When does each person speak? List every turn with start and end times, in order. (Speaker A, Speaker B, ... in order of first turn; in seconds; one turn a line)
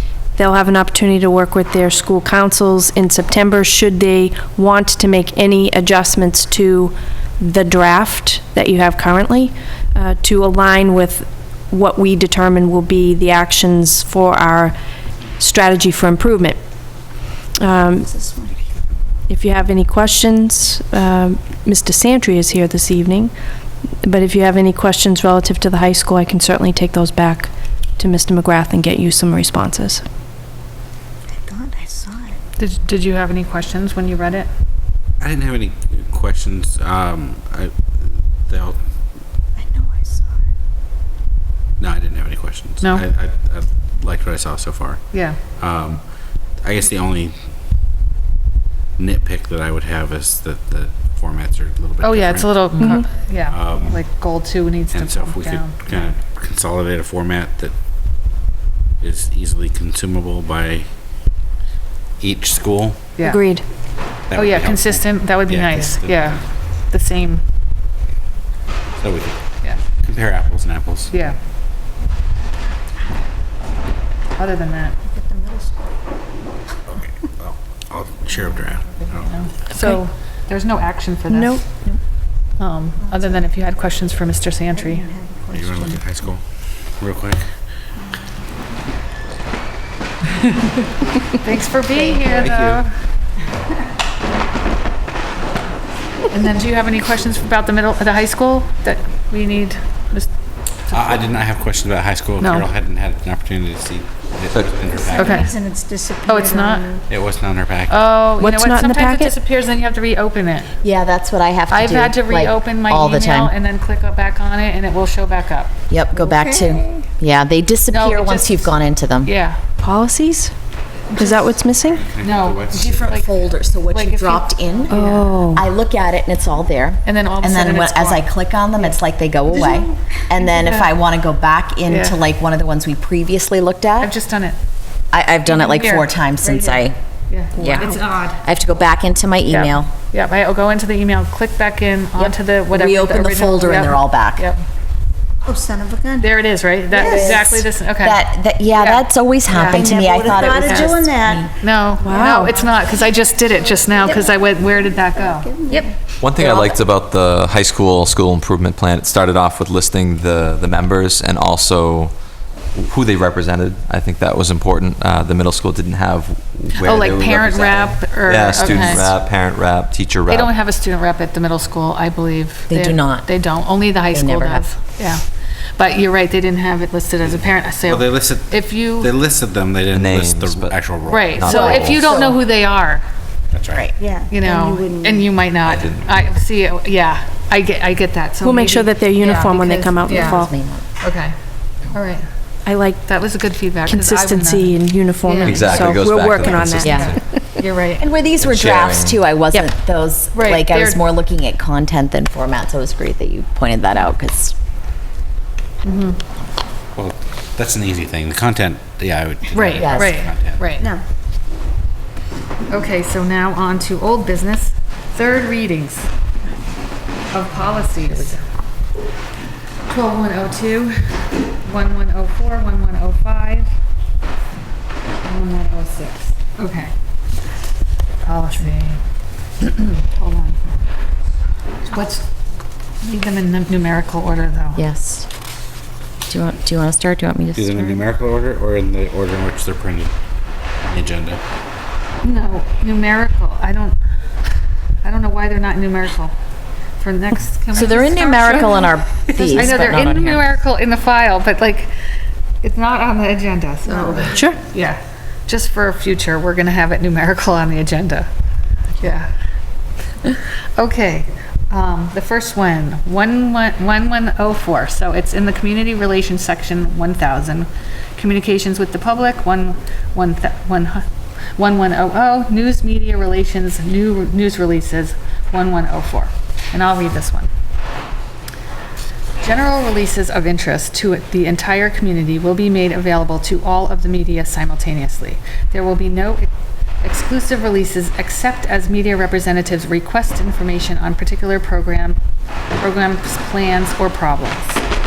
Speaker A: 0.3-14.7
Speaker A: 15.4-16.6
Speaker A: 17.6-18.1
Speaker B: 18.1-18.6
Speaker A: 19.3-23.3
Speaker A: 24.0-30.0
Speaker B: 31.3-32.4
Speaker C: 32.6-34.5
Speaker D: 35.2-38.8
Speaker B: 39.6-40.3
Speaker D: 41.8-46.0
Speaker C: 45.1-45.4
Speaker D: 46.6-47.4
Speaker D: 49.0-52.7
Speaker C: 52.0-56.1
Speaker A: 52.8-53.0
Speaker D: 53.5-54.0
Speaker D: 54.9-57.7
Speaker D: 59.0-60.8
Speaker D: 62.2-63.0
Speaker C: 63.1-63.4
Speaker A: 63.2-63.6
Speaker D: 64.3-66.4
Speaker C: 64.3-67.4
Speaker D: 69.0-69.4
Speaker D: 70.0-71.1
Speaker C: 71.1-71.4
Speaker C: 74.4-75.0
Speaker B: 75.0-75.9
Speaker D: 77.4-79.3
Speaker C: 79.1-81.6
Speaker A: 79.7-80.0
Speaker A: 81.3-82.0
Speaker C: 82.6-85.1
Speaker B: 83.1-83.4
Speaker B: 84.7-86.0
Speaker D: 85.5-87.5
Speaker C: 91.4-92.9
Speaker B: 92.0-92.3
Speaker D: 92.4-92.8
Speaker C: 96.3-100.3
Speaker C: 100.9-101.2
Speaker D: 100.9-105.5
Speaker C: 102.4-102.7
Speaker E: 104.5-104.8
Speaker B: 105.0-107.0
Speaker C: 105.1-105.6
Speaker C: 106.2-106.9
Speaker D: 107.1-108.1
Speaker C: 107.9-110.7
Speaker A: 108.4-109.3
Speaker F: 110.8-113.5
Speaker C: 111.7-115.7
Speaker F: 115.9-119.3
Speaker B: 116.2-117.0
Speaker C: 117.9-119.6
Speaker A: 119.8-120.5
Speaker C: 121.1-121.5
Speaker A: 121.1-122.0
Speaker D: 121.9-123.0
Speaker C: 122.2-125.4
Speaker F: 122.8-134.1
Speaker A: 124.9-125.6
Speaker C: 127.0-129.0
Speaker C: 130.4-130.9
Speaker C: 131.9-132.2
Speaker C: 134.0-134.6
Speaker F: 135.1-136.9
Speaker C: 135.4-138.4
Speaker F: 137.6-139.9
Speaker C: 139.5-144.6
Speaker F: 142.2-144.5
Speaker B: 145.4-146.3
Speaker C: 146.2-151.0
Speaker B: 146.9-147.5
Speaker F: 146.9-151.5
Speaker B: 149.6-151.5
Speaker C: 151.6-155.8
Speaker A: 152.0-152.5
Speaker B: 152.2-152.5
Speaker B: 153.7-155.9
Speaker E: 156.2-162.2
Speaker C: 156.4-156.7
Speaker E: 162.7-170.5
Speaker C: 166.8-169.1
Speaker C: 170.3-175.2
Speaker F: 172.7-173.3
Speaker F: 174.1-174.7
Speaker C: 175.8-179.1
Speaker D: 177.8-182.3
Speaker E: 179.9-182.2
Speaker C: 181.1-183.0
Speaker D: 183.5-183.9
Speaker B: 184.0-185.3
Speaker C: 184.3-190.4
Speaker E: 185.6-186.2
Speaker A: 188.4-190.5
Speaker F: 190.1-190.9
Speaker C: 191.0-191.3
Speaker C: 191.9-192.2
Speaker A: 192.7-193.0
Speaker C: 193.0-198.1
Speaker A: 193.8-197.2
Speaker E: 195.4-197.2
Speaker F: 196.8-197.2
Speaker F: 198.0-204.5
Speaker E: 198.4-199.2
Speaker C: 200.3-201.0
Speaker C: 205.8-206.2
Speaker D: 206.9-210.8
Speaker C: 209.5-210.9
Speaker F: 209.8-210.2
Speaker C: 212.7-216.1
Speaker C: 217.3-218.4
Speaker C: 219.9-223.7
Speaker C: 225.2-226.9
Speaker C: 228.2-229.0
Speaker C: 229.6-230.6
Speaker C: 231.9-232.2
Speaker C: 233.0-234.8
Speaker F: 234.8-235.3
Speaker F: 236.3-238.0
Speaker D: 237.5-240.1
Speaker D: 240.8-241.4
Speaker C: 242.2-244.0
Speaker C: 245.0-246.3
Speaker C: 247.0-251.9
Speaker F: 247.7-250.5
Speaker C: 252.6-258.3
Speaker B: 253.9-254.3
Speaker A: 254.3-254.6
Speaker C: 259.0-259.3
Speaker C: 260.8-271.0
Speaker C: 271.6-277.5
Speaker C: 279.4-286.5
Speaker C: 287.0-292.2
Speaker C: 292.8-294.8